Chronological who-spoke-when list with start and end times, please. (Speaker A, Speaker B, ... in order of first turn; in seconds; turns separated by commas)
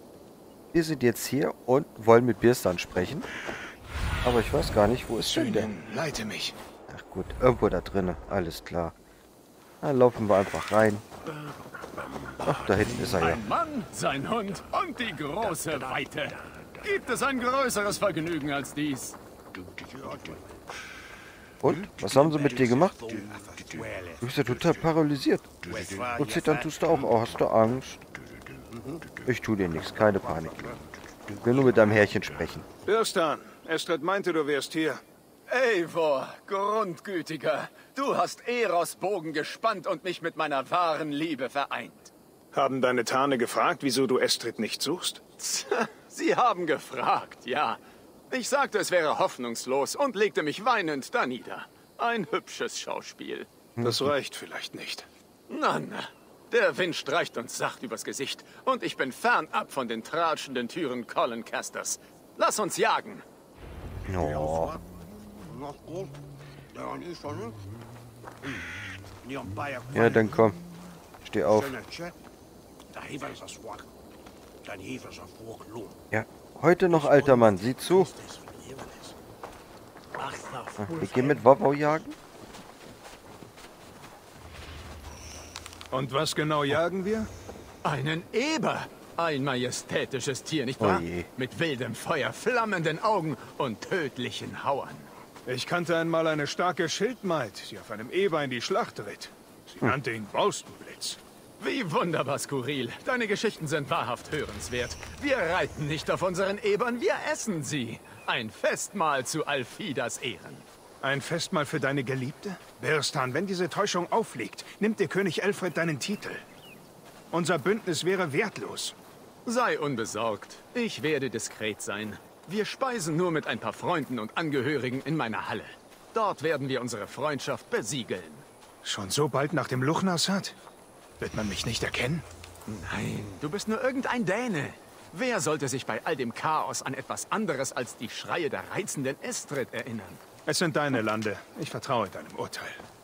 Speaker A: 0.7-3.3, Speaker A: 4.2-5.7, Speaker B: 5.3-6.6, Speaker A: 6.9-8.9, Speaker A: 9.8-11.1, Speaker A: 12.4-13.4, Speaker C: 13.0-19.2, Speaker A: 21.6-23.4, Speaker A: 24.2-28.0, Speaker A: 29.2-32.7, Speaker B: 32.9-35.0, Speaker C: 35.5-42.1, Speaker B: 42.5-45.2, Speaker C: 45.4-53.5, Speaker A: 53.8-54.1, Speaker B: 53.8-55.1, Speaker C: 55.5-63.2, Speaker A: 64.1-64.8, Speaker A: 69.9-70.6, Speaker A: 71.2-71.8, Speaker A: 76.1-78.2, Speaker A: 80.8-82.2, Speaker B: 85.9-87.3, Speaker C: 87.8-95.1, Speaker A: 90.8-91.3, Speaker B: 95.5-101.2, Speaker C: 101.6-110.7, Speaker B: 111.0-116.4, Speaker B: 117.3-119.0, Speaker C: 119.5-128.5, Speaker B: 128.8-130.6, Speaker B: 131.2-132.2, Speaker C: 132.7-140.2, Speaker B: 140.5-142.8